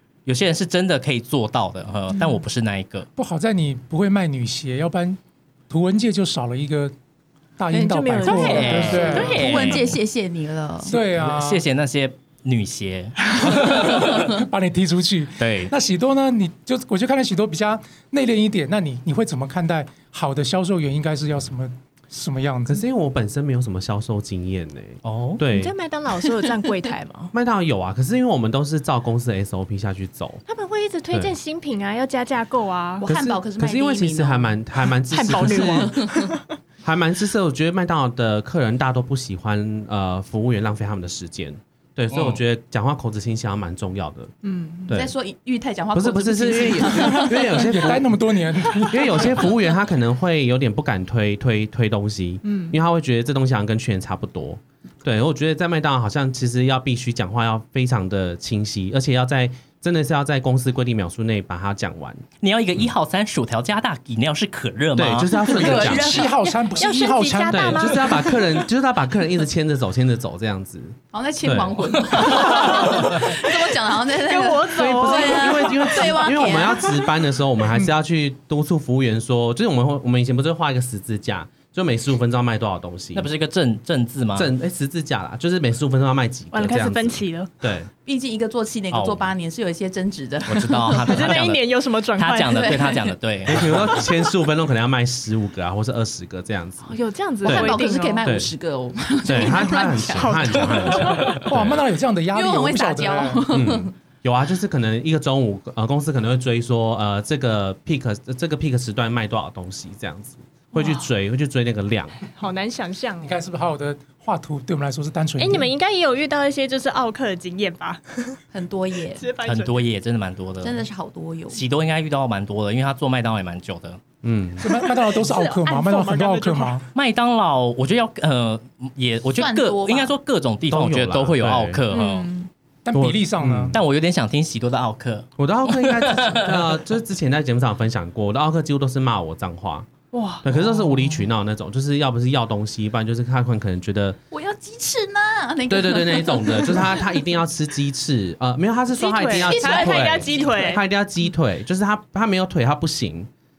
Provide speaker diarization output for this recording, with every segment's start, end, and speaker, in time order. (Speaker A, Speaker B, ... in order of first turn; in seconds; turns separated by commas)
Speaker A: 0.2-3.1, Speaker B: 3.1-6.9, Speaker B: 7.6-9.5, Speaker C: 7.7-9.9, Speaker A: 8.2-10.0, Speaker D: 8.6-10.9, Speaker B: 10.8-11.6, Speaker A: 10.9-14.2, Speaker B: 13.4-22.8, Speaker A: 15.4-15.7, Speaker E: 22.7-25.7, Speaker A: 25.0-25.4, Speaker C: 25.5-27.3, Speaker E: 27.3-30.4, Speaker C: 30.5-33.0, Speaker D: 33.0-34.5, Speaker E: 33.0-35.9, Speaker C: 35.1-36.4, Speaker D: 35.5-36.2, Speaker E: 36.8-44.3, Speaker A: 42.1-42.4, Speaker C: 44.4-44.9, Speaker E: 44.9-45.1, Speaker D: 44.9-47.7, Speaker E: 45.9-48.1, Speaker B: 47.0-49.5, Speaker E: 48.9-62.2, Speaker C: 52.4-52.7, Speaker A: 62.4-66.3, Speaker E: 65.0-66.2, Speaker D: 65.5-66.3, Speaker B: 65.7-68.0, Speaker C: 66.8-68.7, Speaker E: 67.5-73.0, Speaker D: 71.1-77.0, Speaker C: 72.6-73.3, Speaker C: 74.1-76.7, Speaker E: 74.8-83.3, Speaker A: 83.1-84.5, Speaker E: 84.4-87.9, Speaker C: 86.5-87.5, Speaker D: 88.0-91.4, Speaker A: 88.9-89.3, Speaker A: 90.5-93.9, Speaker C: 91.0-93.0, Speaker D: 92.5-93.1, Speaker E: 93.5-98.5, Speaker C: 96.8-98.2, Speaker D: 97.4-101.0, Speaker C: 99.2-101.4, Speaker E: 99.2-101.8, Speaker B: 101.3-103.4, Speaker D: 102.3-103.9, Speaker E: 103.5-112.2, Speaker C: 112.3-113.4, Speaker B: 113.2-115.7, Speaker C: 115.4-118.4, Speaker D: 118.5-119.2, Speaker C: 119.2-119.8, Speaker A: 119.4-120.8, Speaker D: 120.6-121.6, Speaker A: 121.5-124.0, Speaker E: 124.2-124.8, Speaker B: 124.6-126.9, Speaker C: 124.9-126.8, Speaker A: 126.9-132.3, Speaker D: 129.4-130.1, Speaker E: 130.7-131.8, Speaker C: 131.9-132.5, Speaker B: 132.8-133.8, Speaker E: 132.9-133.8, Speaker A: 133.7-136.6, Speaker E: 135.4-139.9, Speaker C: 140.1-140.6, Speaker E: 140.4-144.2, Speaker D: 144.3-147.2, Speaker E: 145.7-153.3, Speaker D: 149.0-150.6, Speaker C: 149.0-150.8